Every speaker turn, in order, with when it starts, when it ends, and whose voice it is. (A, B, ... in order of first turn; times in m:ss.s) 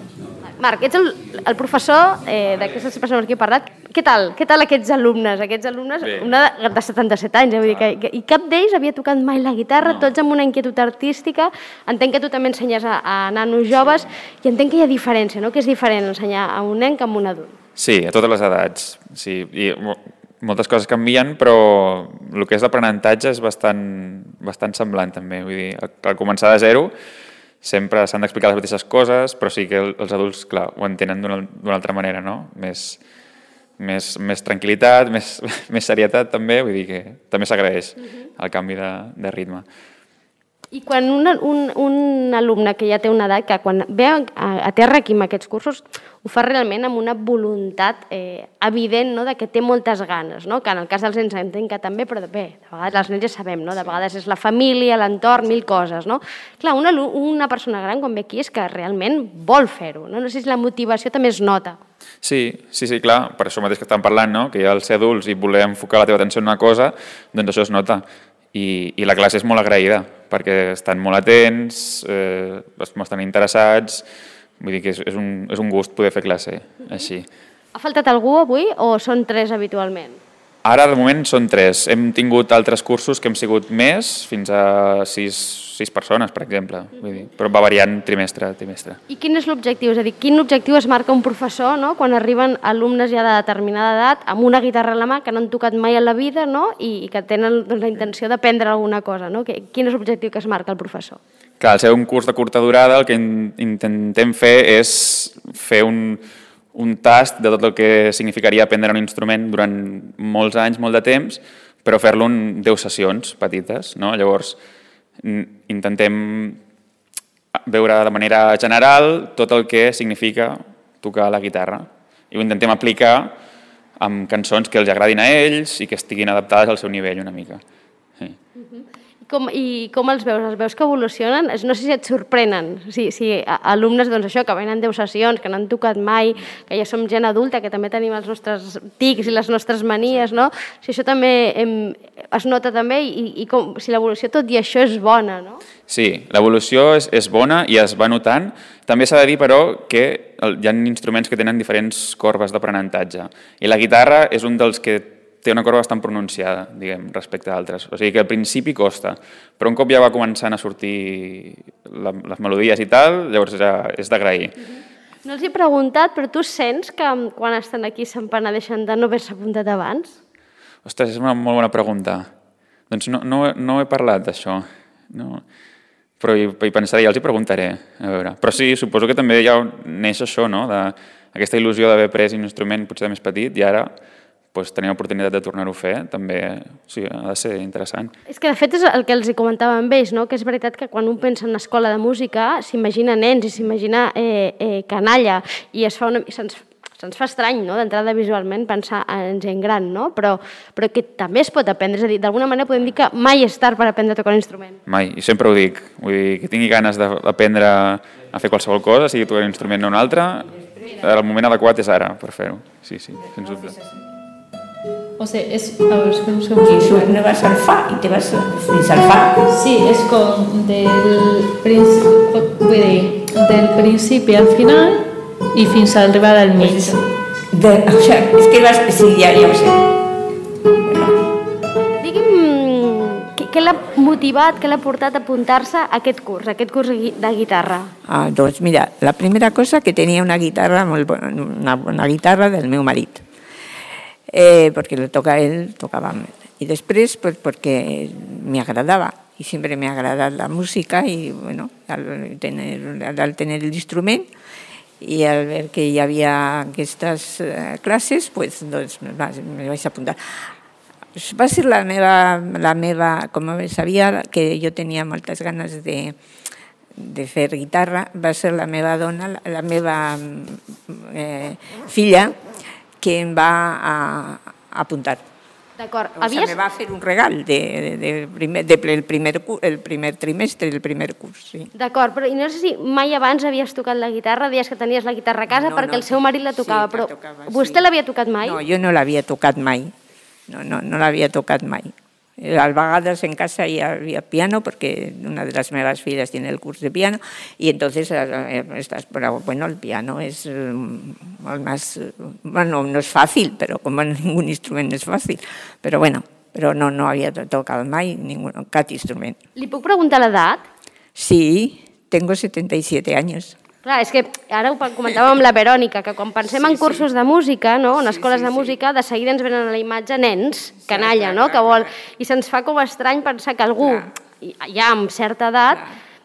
0:00.4-0:17.5 A
0:06.0-0:06.3 B
0:17.8-0:26.9 B
0:27.6-0:33.0 B
0:33.8-0:39.6 B
0:40.7-1:01.8 A
1:02.2-1:14.0 B
1:14.6-1:17.3 B
1:17.7-1:20.2 A
1:20.6-1:29.0 B
1:29.1-1:41.2 A
1:41.6-1:46.2 B
1:46.7-1:54.6 B
1:55.2-1:56.6 B
1:57.6-2:03.3 B
2:04.0-2:07.6 B
2:08.6-2:25.6 A
2:25.9-2:44.5 B
2:45.2-2:50.2 A
2:50.8-2:52.3 B
2:52.9-2:55.4 B
2:56.2-3:03.9 B
3:04.5-3:08.1 B
3:08.3-3:24.8 A
3:24.9-3:33.7 B
3:35.2-3:37.1 C
3:36.6-3:39.4 D
3:39.5-3:46.9 C
3:46.6-3:47.0 D
3:47.5-3:49.8 D
3:50.8-3:51.2 D
3:52.0-3:57.9 A
3:58.0-4:03.2 D
4:04.3-4:14.3 D
4:15.0-4:20.2 D
4:21.2-4:26.2 D
4:27.0-4:32.4 D
4:33.0-4:35.2 D
4:35.8-4:36.6 A
4:36.2-4:41.7 D
4:41.7-4:48.6 A
4:45.5-4:47.9 D
4:48.4-4:49.9 D
4:50.5-5:09.4 D
5:09.6-5:10.6 A
5:11.2-5:13.6 D
5:13.8-5:25.8 A
5:16.6-5:17.0 D
5:18.0-5:18.7 D
5:20.8-5:21.9 D
5:23.8-5:24.0 D